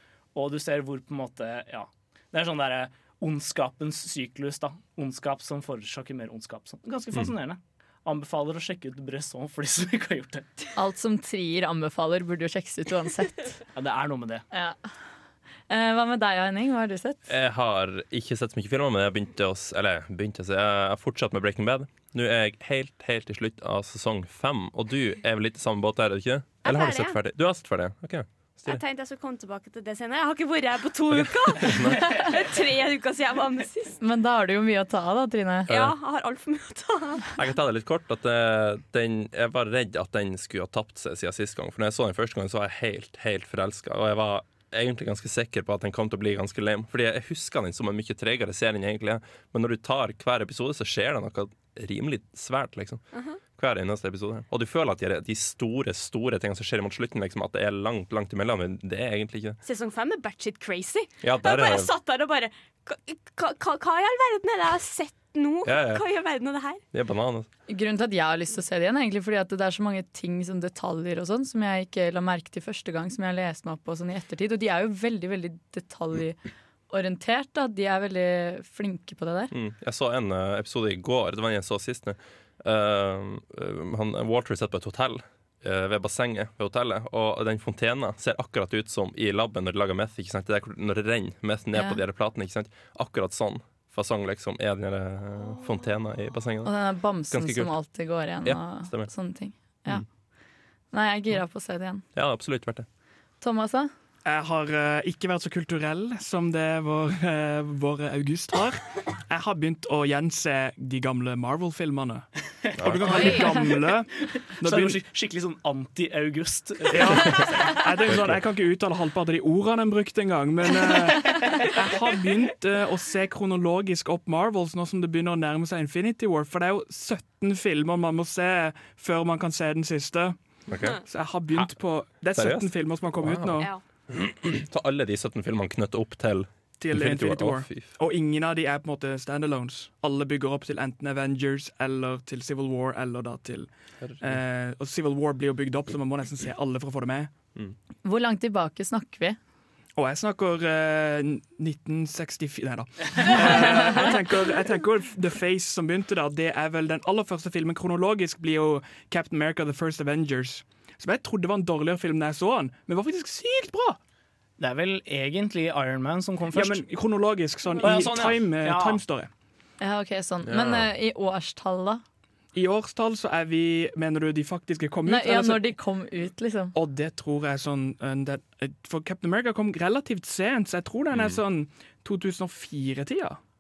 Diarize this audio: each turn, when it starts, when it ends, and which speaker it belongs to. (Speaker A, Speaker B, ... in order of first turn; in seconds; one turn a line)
Speaker A: 0.3-10.7
Speaker B: 10.8-13.6
Speaker A: 13.8-14.4
Speaker B: 14.5-14.8
Speaker B: 15.7-17.3
Speaker C: 17.3-28.8
Speaker D: 26.6-27.2
Speaker D: 28.6-34.0
Speaker C: 31.1-32.1
Speaker B: 34.0-35.7
Speaker D: 35.7-37.3
Speaker C: 35.7-36.0
Speaker C: 37.4-59.6
Speaker D: 53.1-53.4
Speaker D: 59.6-66.8
Speaker C: 61.2-61.9
Speaker C: 65.6-66.0
Speaker C: 66.9-67.5
Speaker B: 67.7-79.5
Speaker C: 79.5-99.1
Speaker B: 91.7-92.0
Speaker D: 95.4-95.8
Speaker B: 96.6-100.1
Speaker B: 100.9-102.0
Speaker C: 102.1-102.9
Speaker B: 103.4-103.9
Speaker E: 104.2-115.0
Speaker C: 112.8-113.4
Speaker D: 113.0-113.7
Speaker A: 114.3-117.5
Speaker E: 116.9-130.4
Speaker C: 118.1-118.4
Speaker C: 130.7-138.0
Speaker E: 131.0-133.7
Speaker E: 136.8-147.3
Speaker C: 144.0-144.4
Speaker B: 148.0-149.4
Speaker E: 150.0-164.0
Speaker A: 164.6-166.9
Speaker E: 166.5-169.3
Speaker A: 167.8-169.0
Speaker B: 169.8-172.0
Speaker C: 170.4-170.9
Speaker E: 172.5-175.8
Speaker B: 175.1-176.7
Speaker E: 176.7-183.4
Speaker C: 181.1-181.4